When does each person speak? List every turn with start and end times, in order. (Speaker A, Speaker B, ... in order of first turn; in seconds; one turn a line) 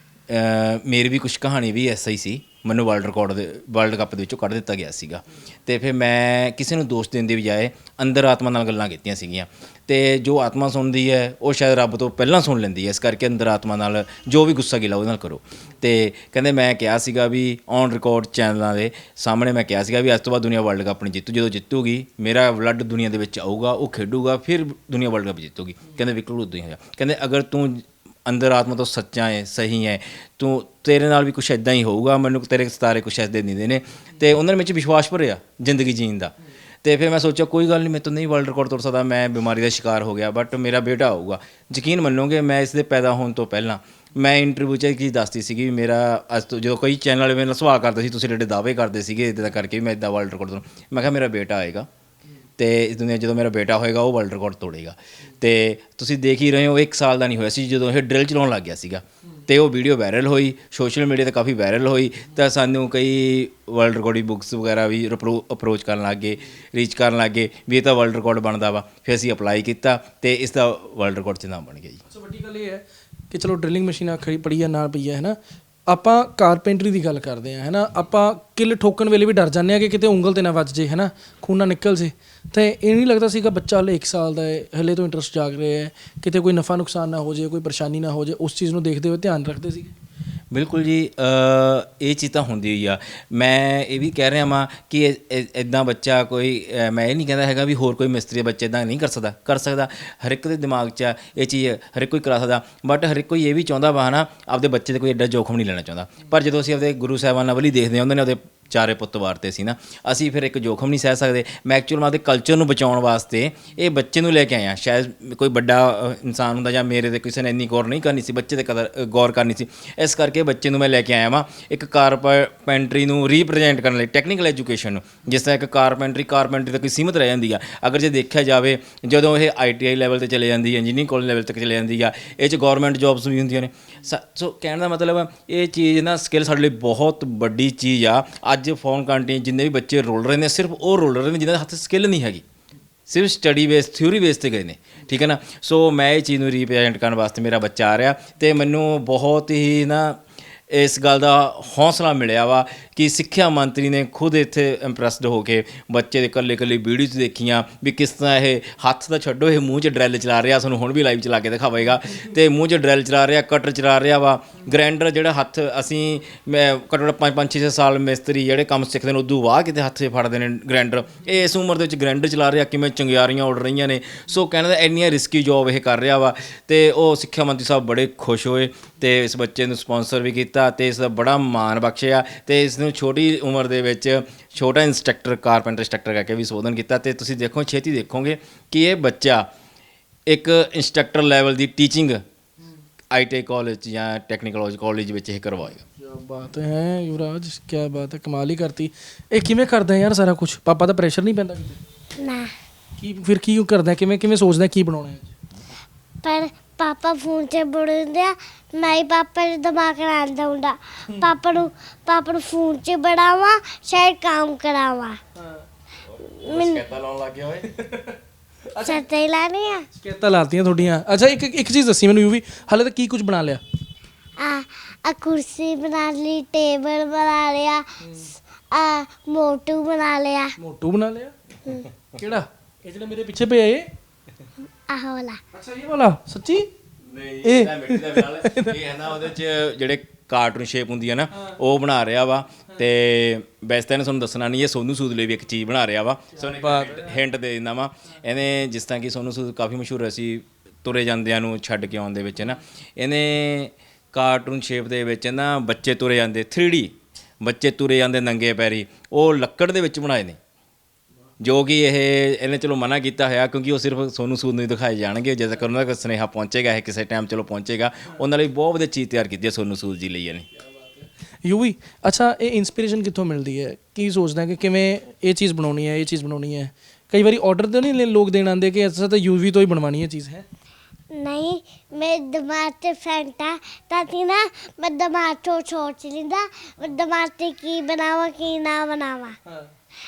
Speaker A: 0.3-36.3
Speaker A: 36.8-51.9
Speaker A: 52.6-72.0
Speaker B: 72.1-75.4
Speaker B: 75.9-89.9
Speaker A: 90.5-142.4
Speaker A: 143.1-150.2
Speaker A: 150.7-189.4
Speaker A: 190.3-192.2
Speaker A: 193.1-195.8
Speaker B: 196.0-201.8
Speaker C: 202.2-202.5
Speaker B: 203.0-205.3
Speaker C: 206.2-215.2
Speaker B: 215.4-215.6
Speaker A: 216.2-217.7
Speaker C: 216.2-216.8
Speaker B: 217.7-218.2
Speaker B: 218.7-219.0
Speaker C: 218.8-219.8
Speaker B: 220.0-223.6
Speaker C: 224.4-227.8
Speaker B: 228.0-228.3
Speaker C: 228.7-230.5
Speaker B: 230.6-231.3
Speaker B: 232.2-233.9
Speaker C: 234.9-235.4
Speaker B: 235.5-236.7
Speaker A: 237.0-260.4
Speaker B: 237.4-238.8
Speaker B: 246.3-247.2
Speaker A: 261.4-270.5
Speaker B: 270.6-280.4
Speaker C: 281.1-289.4